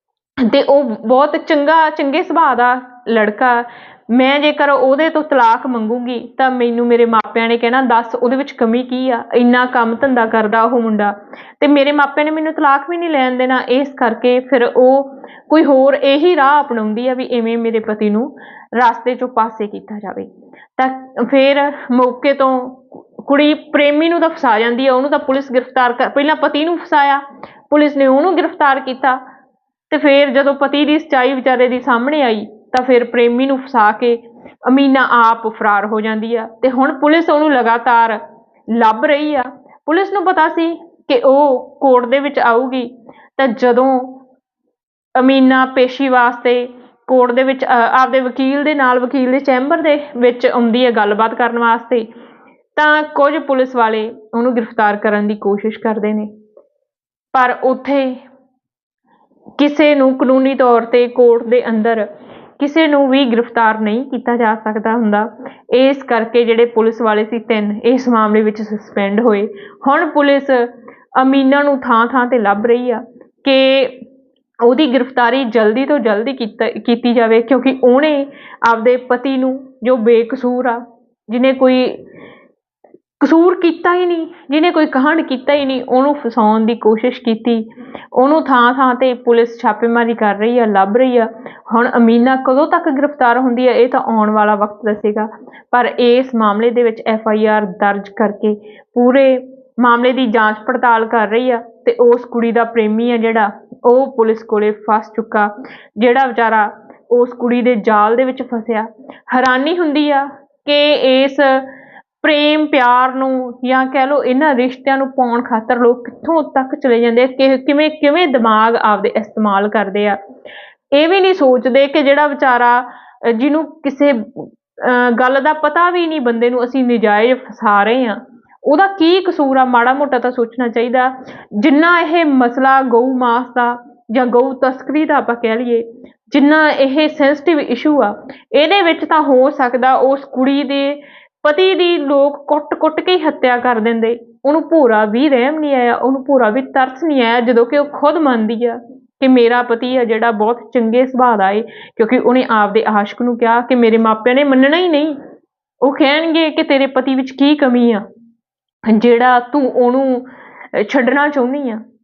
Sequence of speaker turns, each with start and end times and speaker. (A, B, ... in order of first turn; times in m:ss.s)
0:00.4-0:29.2 A
0:29.9-0:44.2 A
0:45.2-0:52.1 A
0:52.8-0:56.3 A
0:57.3-0:58.2 A
0:59.6-1:02.1 A
1:02.6-1:14.0 A
1:14.6-1:22.0 A
1:23.2-1:51.7 A
1:52.2-2:00.2 A
2:00.9-2:35.2 A
2:35.8-2:38.0 A
2:38.8-2:41.8 A